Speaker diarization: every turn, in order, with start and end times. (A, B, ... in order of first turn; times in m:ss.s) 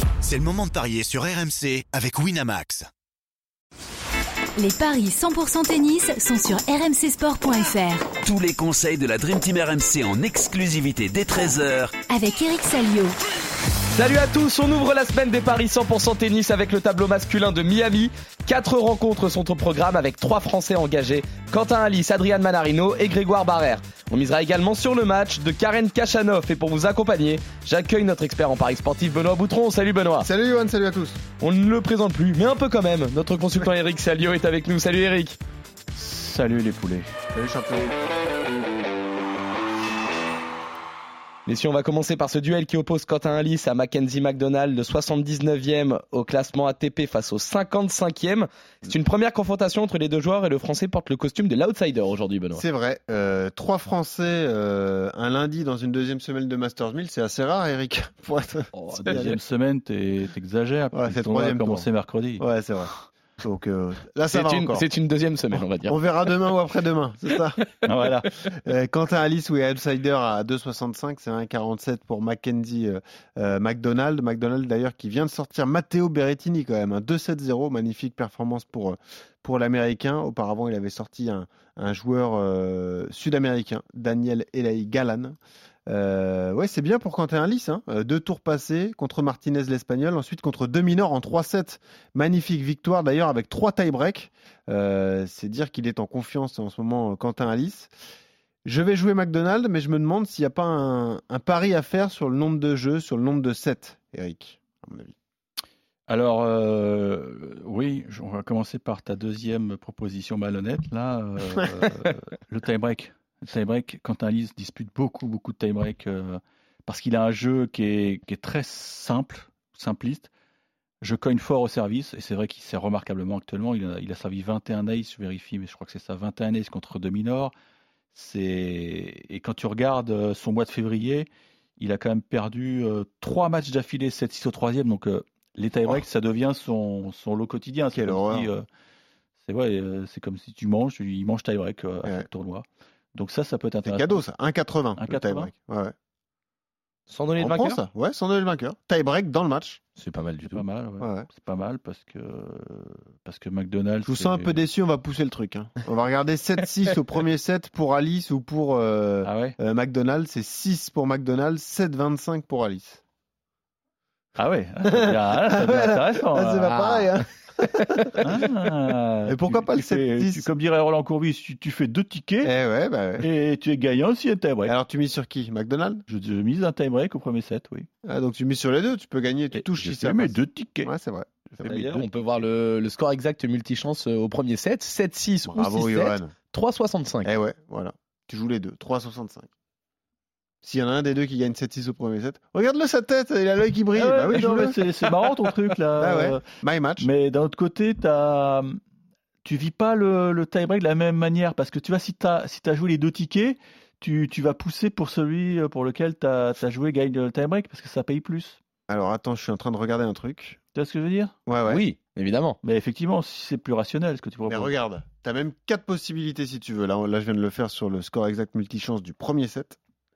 0:00.2-0:02.9 A
0:04.6-0:08.2 B
0:08.2-0:12.0 C
0:12.0-0:13.2 B
0:13.9-0:30.3 D
0:30.2-0:31.2 E
0:31.4-0:35.4 D
0:35.9-0:37.1 F
0:37.3-0:37.9 E
0:41.5-0:52.6 D
0:52.5-0:59.4 E
0:58.7-1:03.0 F
1:00.9-1:04.9 E
1:04.3-1:06.4 D
1:05.9-1:07.6 E
1:07.8-1:08.4 F
1:08.5-1:37.9 E
1:38.7-1:45.2 E
1:46.1-2:00.3 F
2:01.0-2:07.5 F
2:08.1-2:18.7 F
2:17.9-2:18.5 E
2:19.4-2:24.2 F
2:23.8-2:25.9 E
2:25.0-2:25.5 F
2:27.1-2:27.8 D
2:27.4-2:29.8 E
2:30.0-2:30.6 D
2:30.5-2:34.6 F
2:31.0-2:31.3 E
2:34.0-2:43.0 E
2:39.2-2:39.6 F
2:44.4-2:46.8 F
2:44.8-2:48.4 E
2:46.7-2:47.2 D
2:48.2-2:52.5 F
2:49.3-2:50.5 E
2:52.4-2:53.3 E
2:53.2-2:54.7 F
2:54.6-2:56.0 E
2:56.1-2:57.9 F
2:58.0-3:01.8 E
2:59.5-3:00.9 F
3:01.5-3:02.1 F
3:01.6-3:07.3 D
3:05.5-3:06.4 E
3:07.2-3:09.5 E
3:10.6-3:14.8 E
3:13.9-3:16.4 F
3:16.0-3:17.1 E
3:17.0-3:18.8 F
3:19.4-3:28.6 F
3:28.9-3:30.6 E
3:30.7-3:31.3 F
3:31.5-3:31.8 E
3:31.7-3:32.6 D
3:32.6-3:34.7 F
3:34.4-3:39.8 E